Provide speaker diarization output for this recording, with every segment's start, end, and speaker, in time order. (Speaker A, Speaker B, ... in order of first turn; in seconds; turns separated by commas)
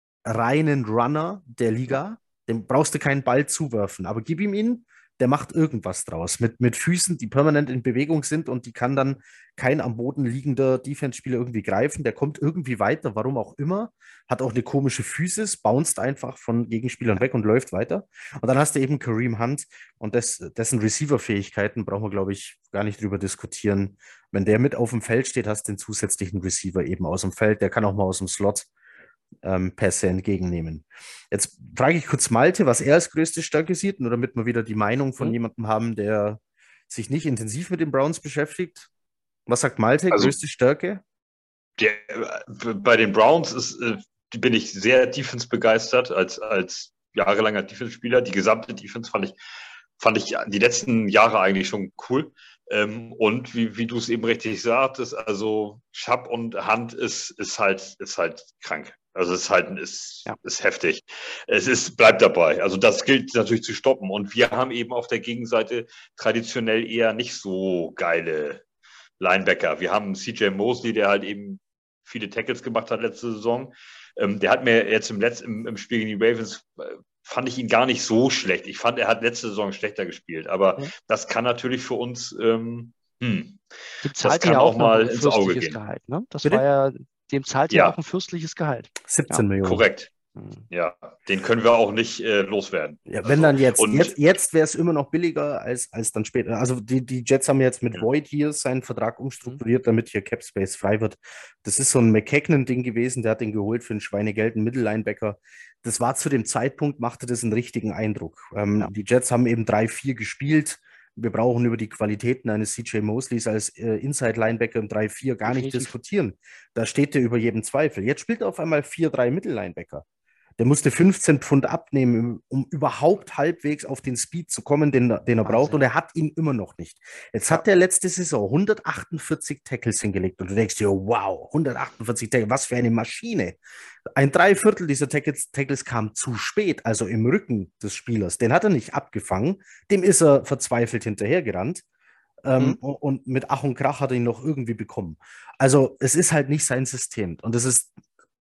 Speaker A: 0.3-28.7, Speaker A: 29.4-38.9, Speaker A: 39.5-41.0, Speaker B: 41.8-49.4, Speaker B: 50.0-68.6, Speaker B: 69.2-83.6, Speaker C: 84.0-89.5, Speaker B: 84.2-85.8, Speaker B: 87.7-88.0, Speaker A: 89.0-89.8, Speaker B: 89.6-90.1, Speaker C: 90.4-90.6, Speaker B: 90.7-94.1, Speaker A: 93.1-120.0, Speaker C: 115.5-115.9, Speaker A: 120.6-133.6, Speaker C: 125.5-125.8, Speaker A: 134.1-141.8, Speaker A: 142.4-147.9